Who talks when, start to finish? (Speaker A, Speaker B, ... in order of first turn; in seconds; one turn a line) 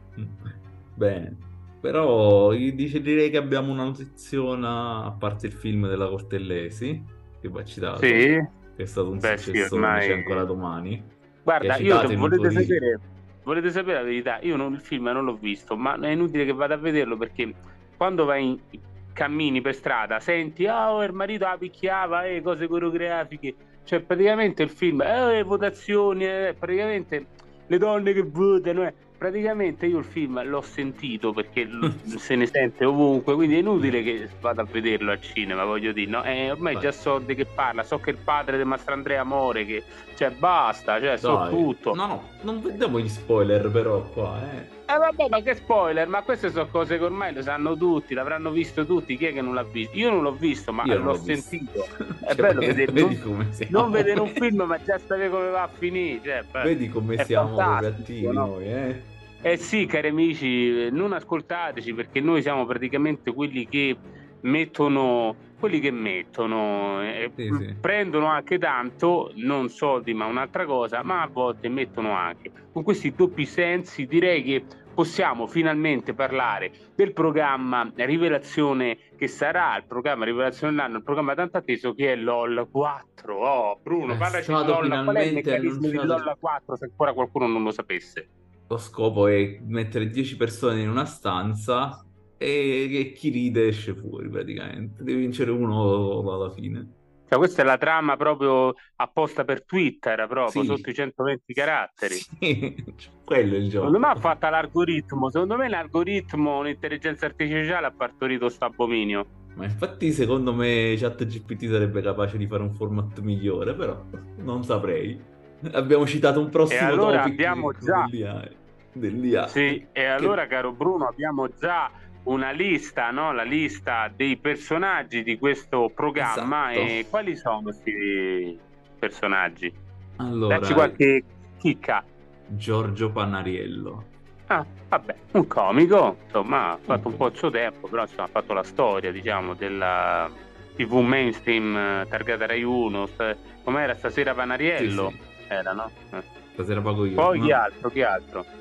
Speaker A: 0.2-12.8
Speaker B: 8.0-8.4
Speaker B: 9.2-10.5
Speaker B: 11.5-42.0
Speaker A: 41.2-44.7
Speaker B: 44.9-58.5
Speaker A: 50.8-51.6
Speaker A: 52.2-54.4
Speaker A: 56.6-59.1
Speaker B: 59.4-88.3
Speaker A: 67.4-67.8
Speaker A: 84.1-86.3
Speaker A: 88.7-96.9
Speaker B: 97.3-102.2
Speaker A: 100.5-100.9
Speaker A: 102.0-104.3
Speaker B: 103.8-109.3
Speaker A: 109.6-120.4
Speaker B: 116.7-118.1
Speaker B: 119.5-129.8
Speaker A: 126.2-127.1
Speaker A: 130.2-131.0
Speaker B: 130.5-132.0
Speaker A: 132.5-134.1
Speaker B: 134.5-146.2
Speaker A: 136.9-137.3
Speaker A: 144.8-145.2
Speaker A: 146.6-147.6
Speaker B: 147.2-148.5